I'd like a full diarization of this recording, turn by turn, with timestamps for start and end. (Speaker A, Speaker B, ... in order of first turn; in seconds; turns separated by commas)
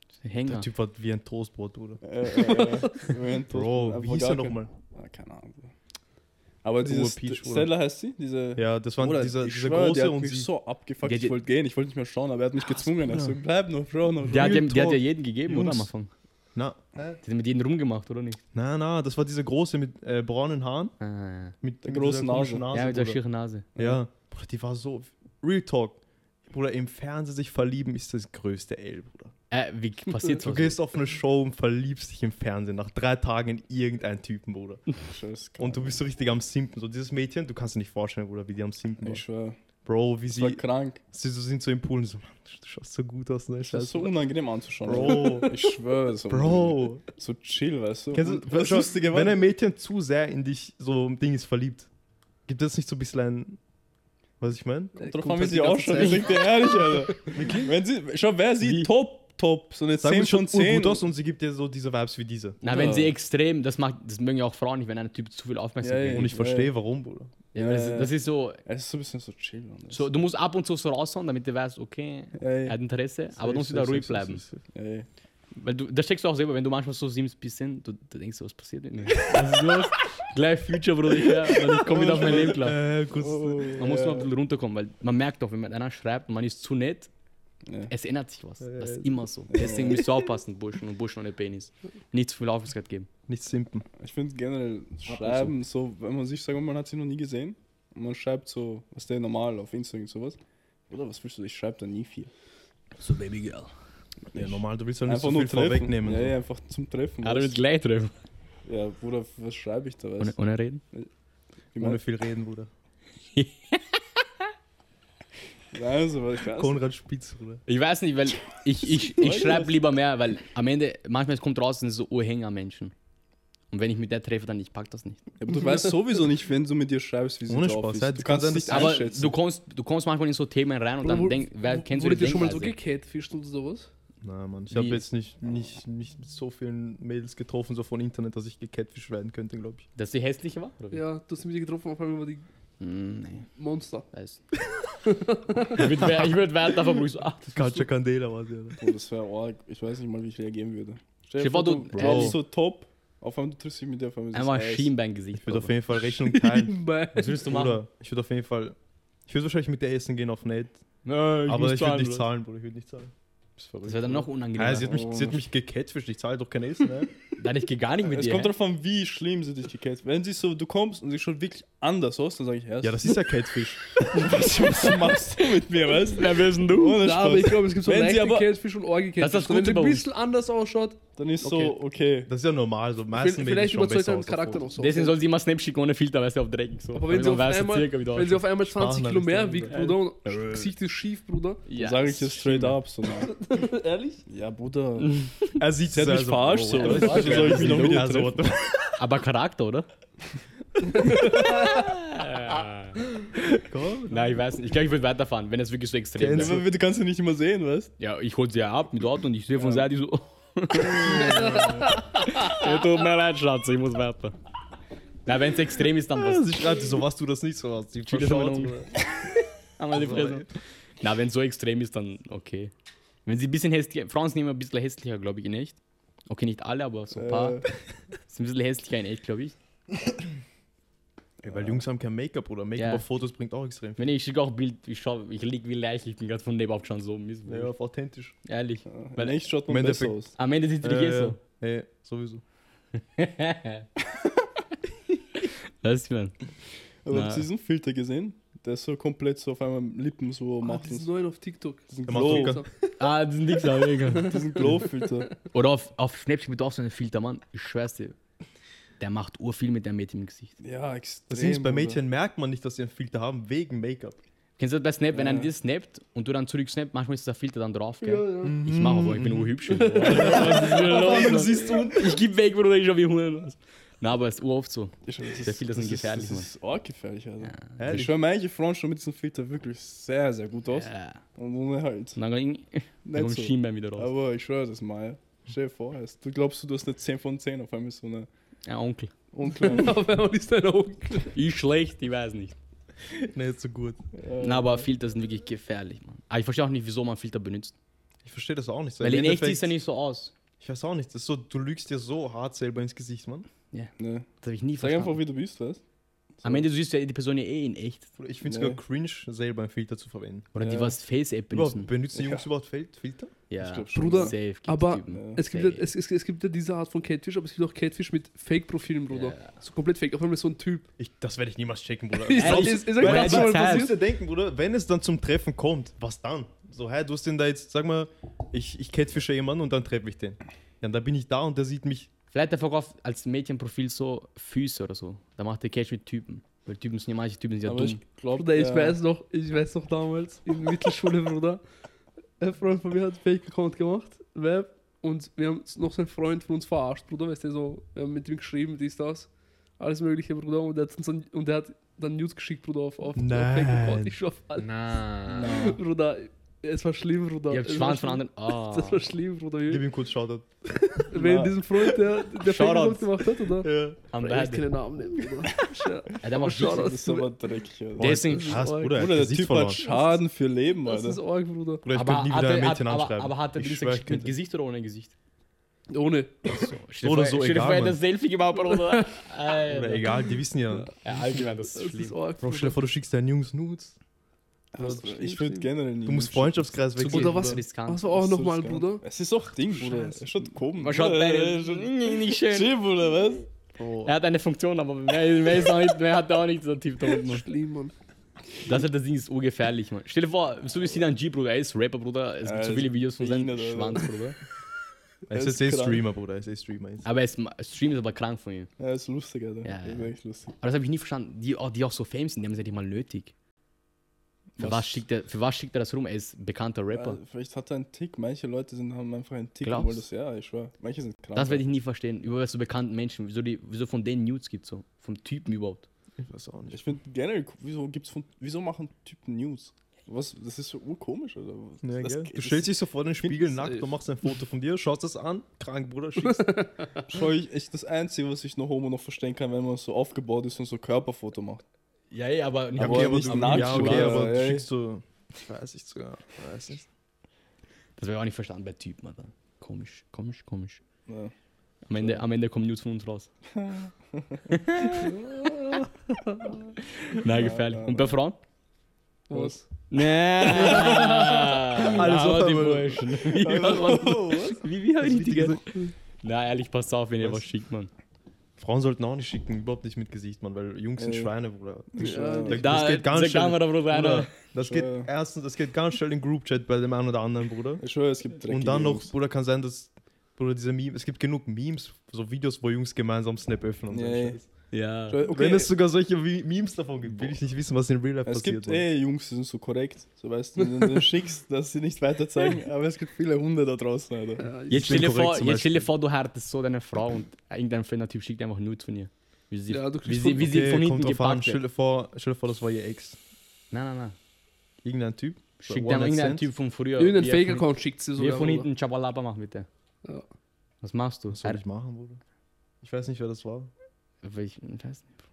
Speaker A: 0.2-0.7, Speaker B: 0.4-2.0, Speaker C: 2.0-5.7, Speaker D: 2.4-2.9, Speaker B: 3.5-4.7, Speaker C: 6.6-14.6, Speaker B: 6.8-7.7, Speaker B: 8.6-10.5, Speaker A: 11.0-11.4, Speaker B: 12.8-13.4, Speaker B: 14.2-15.9, Speaker A: 14.3-16.1, Speaker B: 16.5-17.2, Speaker A: 17.2-18.4, Speaker B: 18.5-20.9, Speaker A: 21.0-21.5, Speaker B: 21.6-23.2, Speaker C: 21.8-22.6, Speaker A: 22.7-23.6, Speaker B: 23.8-29.3, Speaker A: 29.5-30.8, Speaker B: 30.4-34.9, Speaker C: 35.0-36.0, Speaker B: 35.6-39.2, Speaker C: 39.0-39.6, Speaker B: 39.8-44.1, Speaker C: 40.3-41.0, Speaker C: 43.6-49.4, Speaker B: 44.8-45.6, Speaker B: 46.3-47.0, Speaker B: 48.1-51.9, Speaker B: 52.5-53.6, Speaker B: 54.4-55.0, Speaker C: 55.0-61.0, Speaker A: 55.3-56.4, Speaker D: 55.3-56.9, Speaker B: 57.3-57.7, Speaker A: 58.6-58.9, Speaker B: 60.0-62.6, Speaker A: 62.6-66.3, Speaker C: 62.7-63.1, Speaker C: 65.8-66.7, Speaker B: 66.1-67.3, Speaker A: 67.5-68.6, Speaker C: 67.5-70.1, Speaker A: 69.9-74.4, Speaker C: 72.4-72.8, Speaker C: 73.4-74.2, Speaker B: 73.5-74.5, Speaker C: 74.7-75.1, Speaker A: 75.5-82.8, Speaker B: 81.8-83.8, Speaker C: 82.0-82.5, Speaker C: 83.1-84.3, Speaker A: 83.8-87.1, Speaker C: 87.7-87.9, Speaker A: 87.9-93.1, Speaker B: 88.6-89.3, Speaker C: 89.5-90.0, Speaker B: 93.3-93.8, Speaker C: 94.0-100.4, Speaker A: 95.0-95.5, Speaker C: 100.9-102.3, Speaker A: 103.0-103.7, Speaker C: 104.3-107.5, Speaker B: 104.3-106.3, Speaker A: 107.2-108.1, Speaker C: 108.7-110.3, Speaker A: 110.2-110.8, Speaker C: 111.7-112.0, Speaker B: 111.8-112.7, Speaker A: 113.3-114.0, Speaker C: 115.7-116.8, Speaker B: 116.5-117.6, Speaker A: 117.7-122.9, Speaker C: 119.0-119.7, Speaker A: 123.7-125.2, Speaker C: 125.4-129.3, Speaker B: 127.5-129.0, Speaker A: 128.7-132.7, Speaker D: 131.0-133.9, Speaker B: 134.2-139.8, Speaker A: 134.7-135.0, Speaker A: 139.9-141.0, Speaker D: 140.9-142.4, Speaker A: 142.8-143.5, Speaker D: 143.6-144.1, Speaker A: 144.1-144.4, Speaker D: 145.0-145.9, Speaker A: 145.7-147.8, Speaker B: 145.8-146.3, Speaker B: 147.5-148.8, Speaker C: 148.8-154.9, Speaker A: 151.4-152.4, Speaker B: 151.9-152.4, Speaker A: 154.3-155.7, Speaker B: 155.4-156.8, Speaker D: 156.1-157.4, Speaker A: 157.1-157.8, Speaker B: 157.3-158.8, Speaker B: 159.3-160.8, Speaker A: 161.0-162.3, Speaker B: 161.4-167.1, Speaker A: 163.8-165.0, Speaker C: 164.8-165.4, Speaker A: 167.4-168.5, Speaker C: 168.0-173.2, Speaker B: 172.8-174.2, Speaker C: 174.0-178.5, Speaker A: 175.4-177.1, Speaker D: 177.0-181.0, Speaker A: 179.2-180.1, Speaker C: 181.2-182.3, Speaker B: 181.4-184.6, Speaker D: 183.2-185.2, Speaker A: 184.8-188.4, Speaker D: 186.9-191.6, Speaker B: 188.6-189.8, Speaker C: 189.7-190.7, Speaker A: 191.7-192.8, Speaker C: 191.8-193.3, Speaker D: 193.2-194.2, Speaker C: 194.3-195.2, Speaker A: 195.0-195.5, Speaker B: 195.6-198.9, Speaker C: 195.9-198.4, Speaker A: 196.7-198.0, Speaker D: 196.9-197.2, Speaker A: 199.0-199.9, Speaker D: 201.0-201.8, Speaker A: 201.3-203.0, Speaker B: 203.3-204.3, Speaker A: 204.1-206.6, Speaker B: 206.2-206.7, Speaker C: 206.3-207.9, Speaker A: 208.0-214.3, Speaker C: 209.5-209.9, Speaker B: 211.0-211.9, Speaker D: 211.1-211.9, Speaker A: 215.2-216.5, Speaker B: 216.1-219.0, Speaker A: 218.1-220.5, Speaker B: 219.9-220.5, Speaker A: 221.0-222.7, Speaker A: 223.2-227.6, Speaker C: 227.2-227.7, Speaker A: 228.3-229.5, Speaker C: 231.4-231.8, Speaker B: 231.4-234.0, Speaker A: 232.8-233.0, Speaker A: 234.0-237.7, Speaker B: 237.5-238.3, Speaker A: 238.4-239.5, Speaker C: 238.9-240.3, Speaker B: 239.7-240.2, Speaker A: 240.3-241.4, Speaker B: 240.8-242.4, Speaker A: 243.0-243.9, Speaker A: 245.8-246.3, Speaker C: 247.0-251.1, Speaker A: 247.1-247.5, Speaker D: 250.6-252.7, Speaker C: 251.9-252.6, Speaker B: 252.1-252.6, Speaker A: 253.0-254.4, Speaker C: 254.1-255.3, Speaker B: 254.6-254.8, Speaker A: 255.5-258.1, Speaker A: 259.0-260.5, Speaker C: 260.6-262.0, Speaker B: 261.3-264.2, Speaker A: 264.6-276.5, Speaker C: 265.1-265.5, Speaker D: 268.0-268.6, Speaker B: 268.4-272.2, Speaker D: 269.7-271.7, Speaker C: 275.1-282.2, Speaker A: 277.4-277.7, Speaker B: 277.8-278.2, Speaker A: 280.7-281.2, Speaker A: 282.1-284.1, Speaker C: 283.0-288.3, Speaker A: 288.6-289.1, Speaker C: 289.3-290.0, Speaker D: 289.6-291.3, Speaker A: 291.3-292.6, Speaker B: 293.0-294.0, Speaker C: 294.2-294.9, Speaker A: 294.4-297.7, Speaker B: 298.2-299.7, Speaker A: 299.0-300.3, Speaker B: 300.6-303.5, Speaker A: 303.7-305.2, Speaker C: 304.0-305.8, Speaker C: 306.4-306.7, Speaker A: 306.4-308.1, Speaker B: 308.2-310.5, Speaker C: 308.4-308.8, Speaker A: 310.5-311.9, Speaker C: 310.6-311.0, Speaker B: 311.5-313.3, Speaker A: 313.5-315.9, Speaker C: 313.6-314.4, Speaker D: 313.9-320.9, Speaker C: 315.1-315.4, Speaker A: 319.1-319.5, Speaker B: 321.0-332.1, Speaker D: 322.2-324.0, Speaker A: 322.4-323.9, Speaker A: 332.3-338.0, Speaker C: 337.6-339.0, Speaker D: 338.3-341.6, Speaker D: 342.4-354.7, Speaker B: 353.1-354.1, Speaker A: 354.6-355.8, Speaker D: 355.2-359.9, Speaker A: 357.5-359.1, Speaker B: 359.6-361.0, Speaker D: 361.0-367.4, Speaker C: 361.1-361.6, Speaker A: 362.4-363.1, Speaker B: 363.6-364.0, Speaker A: 364.1-364.6, Speaker A: 366.2-367.0, Speaker C: 366.4-368.1, Speaker B: 368.0-369.8, Speaker A: 368.0-368.6, Speaker D: 368.1-369.1, Speaker C: 368.9-371.2, Speaker D: 369.7-370.2, Speaker D: 370.8-371.9, Speaker B: 371.8-374.3, Speaker A: 371.9-375.1, Speaker D: 375.9-376.7, Speaker A: 376.6-380.1, Speaker B: 377.0-378.0, Speaker D: 378.7-379.1, Speaker B: 379.7-380.9, Speaker D: 380.7-382.8, Speaker A: 381.0-382.1, Speaker B: 382.4-383.9, Speaker C: 384.7-386.7, Speaker D: 384.7-385.7, Speaker B: 386.0-387.6, Speaker D: 387.0-389.0, Speaker A: 387.0-388.0, Speaker C: 388.1-393.5, Speaker D: 389.9-390.2, Speaker A: 390.8-392.7, Speaker B: 393.8-394.1, Speaker A: 394.0-397.4, Speaker D: 397.2-397.9, Speaker A: 398.6-404.4, Speaker C: 402.4-404.1, Speaker B: 405.3-407.1, Speaker C: 405.3-406.0, Speaker A: 407.0-408.7, Speaker C: 408.8-410.5, Speaker A: 409.6-413.3, Speaker C: 414.6-414.9, Speaker A: 414.6-417.2, Speaker C: 416.9-421.7, Speaker A: 419.6-420.0, Speaker A: 421.3-425.9, Speaker B: 426.2-426.8, Speaker C: 426.7-432.7, Speaker B: 431.8-436.6, Speaker D: 436.2-437.0, Speaker C: 437.1-441.6, Speaker A: 442.1-444.3, Speaker C: 442.8-444.7, Speaker B: 442.8-446.9, Speaker A: 448.0-450.8, Speaker C: 451.1-451.3, Speaker A: 451.9-453.3, Speaker C: 451.9-452.2, Speaker C: 453.5-454.4, Speaker A: 454.5-455.1, Speaker A: 457.1-458.4, Speaker C: 457.2-458.1, Speaker D: 459.3-459.7, Speaker A: 459.9-465.6, Speaker D: 460.6-461.5, Speaker B: 460.6-463.9, Speaker C: 463.3-464.6, Speaker B: 465.0-465.8, Speaker A: 466.2-467.9, Speaker B: 468.6-477.8, Speaker C: 471.0-471.3, Speaker C: 471.9-472.6, Speaker D: 472.0-472.6, Speaker A: 472.5-474.3, Speaker C: 474.6-475.1, Speaker C: 477.8-479.1, Speaker B: 478.4-484.5, Speaker C: 483.9-484.4, Speaker A: 484.7-485.2, Speaker D: 485.1-485.6, Speaker B: 485.2-488.8, Speaker C: 485.2-485.7, Speaker C: 488.2-494.5, Speaker D: 494.4-495.1, Speaker B: 494.7-495.9, Speaker A: 494.7-501.6, Speaker D: 499.7-500.5, Speaker B: 500.1-503.2, Speaker A: 503.7-504.1, Speaker B: 504.8-506.5, Speaker A: 505.6-509.7, Speaker D: 507.0-508.7, Speaker A: 510.8-511.6, Speaker B: 511.3-512.2, Speaker B: 512.8-513.7, Speaker A: 514.2-515.1